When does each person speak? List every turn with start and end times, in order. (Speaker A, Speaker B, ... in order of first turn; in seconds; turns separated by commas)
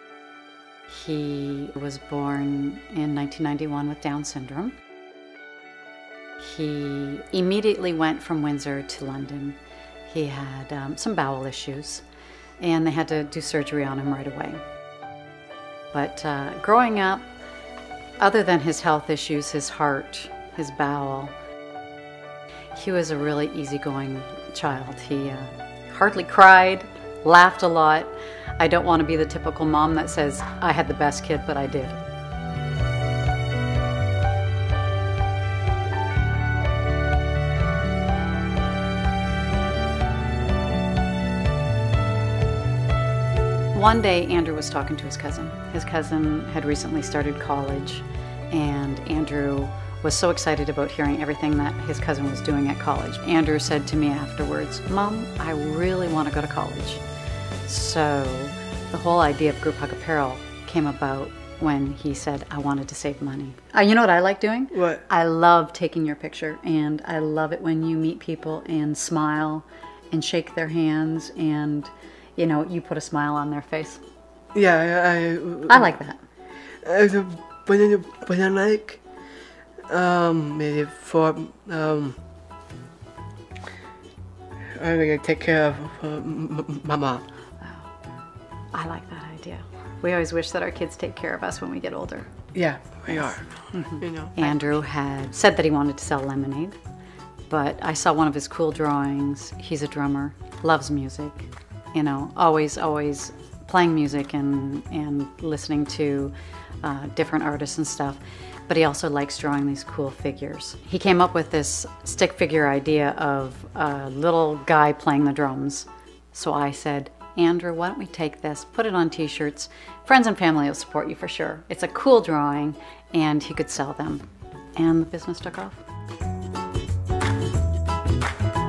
Speaker A: 0.9-4.8, Speaker A: 6.4-12.0, Speaker A: 12.6-14.6, Speaker A: 15.9-17.3, Speaker A: 18.2-21.3, Speaker A: 22.8-32.0, Speaker A: 43.7-57.0, Speaker A: 57.7-74.0, Speaker B: 64.7-65.0, Speaker B: 74.5-75.9, Speaker A: 75.7-76.2, Speaker B: 76.6-79.1, Speaker B: 79.9-82.2, Speaker B: 84.6-87.2, Speaker A: 87.6-87.9, Speaker A: 88.7-92.3, Speaker B: 92.5-94.8, Speaker A: 93.1-96.8, Speaker A: 97.5-125.8